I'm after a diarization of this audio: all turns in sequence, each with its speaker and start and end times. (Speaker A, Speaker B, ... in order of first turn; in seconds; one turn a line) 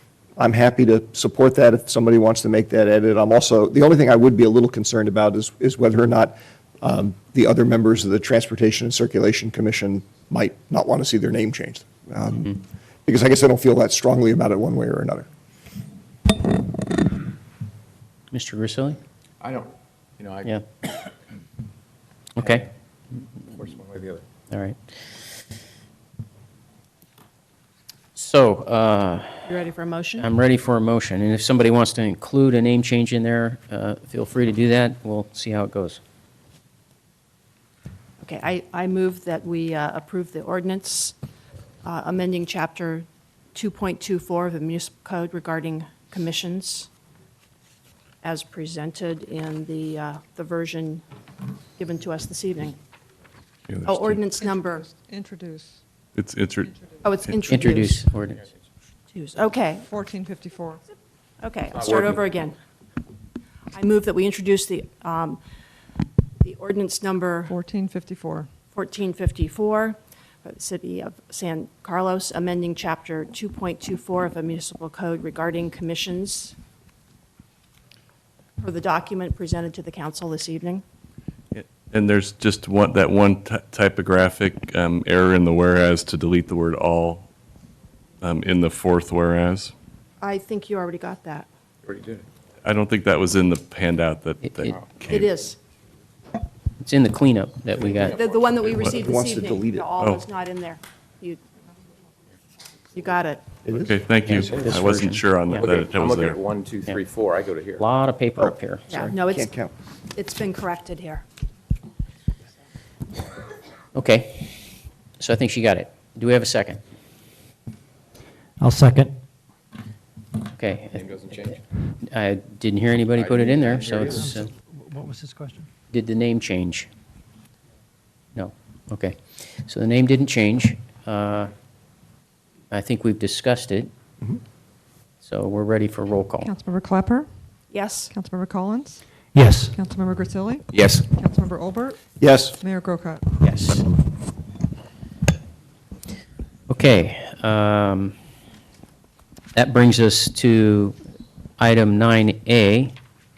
Speaker A: 0.4-15.3
Speaker B: 18.3-19.0
Speaker C: 19.4-20.5
Speaker B: 20.4-20.9
Speaker B: 22.4-22.7
Speaker C: 23.5-24.2
Speaker B: 24.5-25.0
Speaker B: 28.1-29.5
Speaker D: 29.4-30.3
Speaker B: 30.2-36.0
Speaker D: 38.2-41.1
Speaker D: 41.8-46.9
Speaker D: 48.2-51.0
Speaker D: 51.8-52.8
Speaker E: 53.7-54.2
Speaker D: 53.8-54.9
Speaker F: 54.4-55.8
Speaker E: 56.1-57.4
Speaker F: 56.7-57.0
Speaker D: 57.0-58.0
Speaker B: 57.5-58.5
Speaker D: 59.1-59.9
Speaker F: 59.9-60.8
Speaker D: 61.4-62.6
Speaker C: 61.8-62.2
Speaker D: 63.7-65.4
Speaker D: 66.4-67.5
Speaker F: 67.5-68.5
Speaker D: 68.7-76.5
Speaker D: 78.6-80.8
Speaker E: 81.5-87.3
Speaker E: 88.2-89.7
Speaker D: 90.2-91.5
Speaker C: 91.8-92.2
Speaker E: 92.6-95.3
Speaker B: 94.5-94.7
Speaker D: 95.1-95.6
Speaker B: 96.8-98.2
Speaker C: 97.8-98.6
Speaker D: 98.1-101.4
Speaker A: 98.9-99.9
Speaker E: 100.0-100.2
Speaker D: 102.9-103.4
Speaker A: 103.6-104.0
Speaker E: 103.8-106.4
Speaker B: 104.2-105.8
Speaker C: 105.7-107.8
Speaker B: 107.8-108.9
Speaker A: 108.4-109.7
Speaker D: 108.9-109.5
Speaker D: 110.1-111.2
Speaker B: 114.0-116.8
Speaker G: 118.6-119.1
Speaker B: 120.5-121.2
Speaker C: 121.0-121.6
Speaker B: 122.0-124.5
Speaker C: 123.2-124.2
Speaker G: 124.0-125.7
Speaker B: 125.9-126.9
Speaker B: 128.3-131.5
Speaker B: 132.7-133.9
Speaker B: 135.2-136.5
Speaker F: 136.4-143.2
Speaker D: 137.7-138.1
Speaker G: 139.3-139.7
Speaker C: 140.7-141.1
Speaker A: 142.2-142.6
Speaker B: 143.4-143.8
Speaker B: 146.7-148.2
Speaker B: 149.5-151.0
Speaker B: 151.6-152.9